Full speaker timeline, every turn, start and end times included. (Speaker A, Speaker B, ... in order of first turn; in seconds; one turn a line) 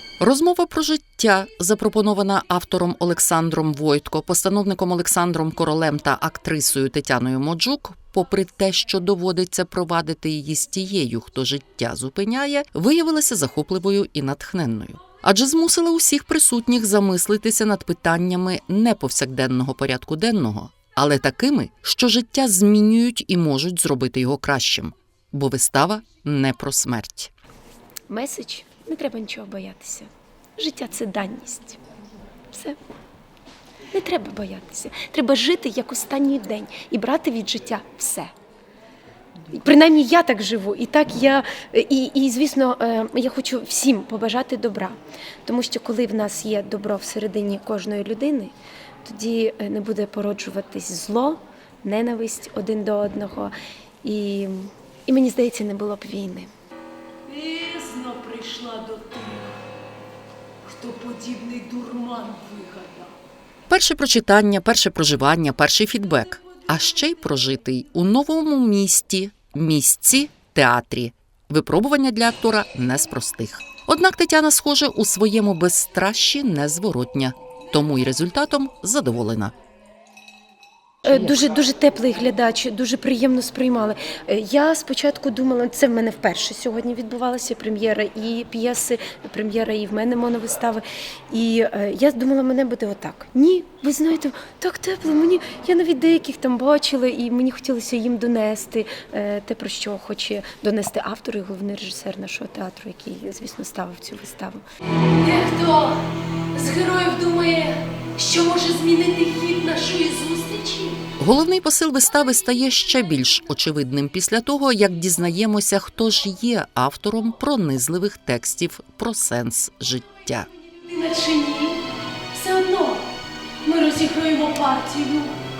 Speaker A: 0.2-27.3
Speaker B: 28.1-31.8
Speaker B: 32.5-32.8
Speaker B: 33.9-38.3
Speaker B: 39.5-56.5
Speaker C: 57.3-59.5
Speaker C: 60.6-63.1
Speaker A: 63.7-79.5
Speaker B: 81.0-104.6
Speaker A: 81.0-81.4
Speaker C: 105.2-105.9
Speaker C: 106.5-111.0
Speaker A: 111.2-120.5
Speaker C: 120.8-121.8
Speaker C: 122.3-123.1
Speaker C: 123.6-125.3